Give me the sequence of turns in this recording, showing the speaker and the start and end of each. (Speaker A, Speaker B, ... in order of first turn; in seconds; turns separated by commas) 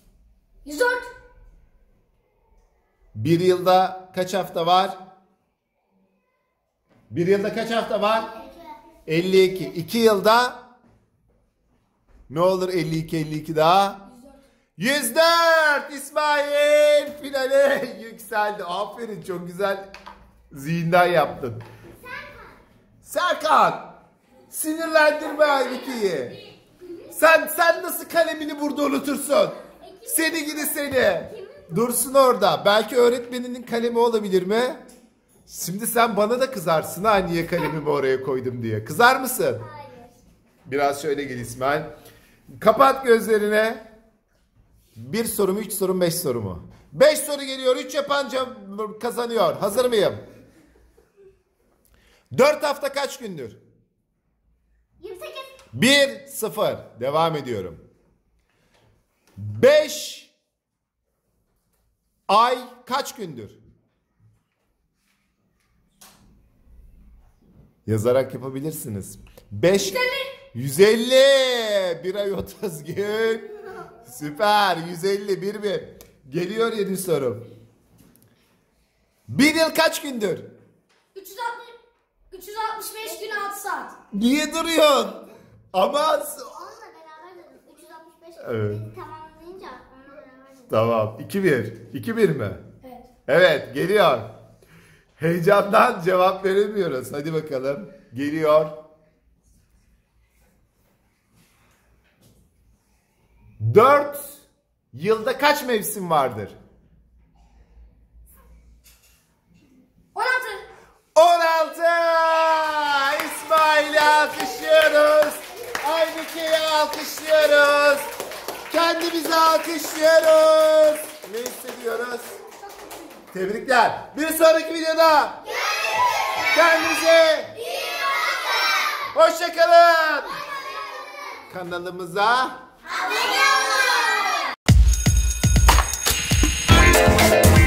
Speaker A: 0.7-1.1, Speaker B: 3.1-5.0, Speaker B: 7.1-8.3, Speaker C: 8.3-8.8, Speaker B: 9.1-10.6, Speaker B: 12.3-14.0, Speaker B: 14.8-19.9, Speaker B: 20.5-21.6, Speaker C: 22.0-22.6, Speaker B: 23.0-23.9, Speaker B: 24.5-26.4, Speaker B: 27.1-34.8, Speaker C: 29.7-31.7, Speaker B: 35.5-39.6, Speaker C: 39.6-40.2, Speaker B: 40.7-41.9, Speaker B: 42.6-43.9, Speaker B: 45.0-50.2, Speaker B: 52.3-53.6, Speaker C: 55.0-55.5, Speaker B: 55.7-57.8, Speaker B: 59.4-60.3, Speaker B: 62.3-63.6, Speaker B: 67.9-77.5, Speaker A: 69.8-70.3, Speaker B: 79.3-80.5, Speaker A: 81.1-81.8, Speaker A: 82.3-84.0, Speaker C: 83.1-83.5, Speaker B: 84.1-86.5, Speaker C: 86.5-90.7, Speaker B: 88.4-88.8, Speaker B: 90.7-92.6, Speaker B: 93.3-94.3, Speaker B: 95.2-98.8, Speaker B: 103.6-104.4, Speaker B: 104.9-106.6, Speaker A: 110.1-110.7, Speaker B: 111.2-118.1, Speaker B: 118.7-122.3, Speaker B: 123.3-125.4, Speaker B: 126.4-127.6, Speaker B: 129.1-130.4, Speaker B: 131.5-132.6, Speaker C: 132.9-133.9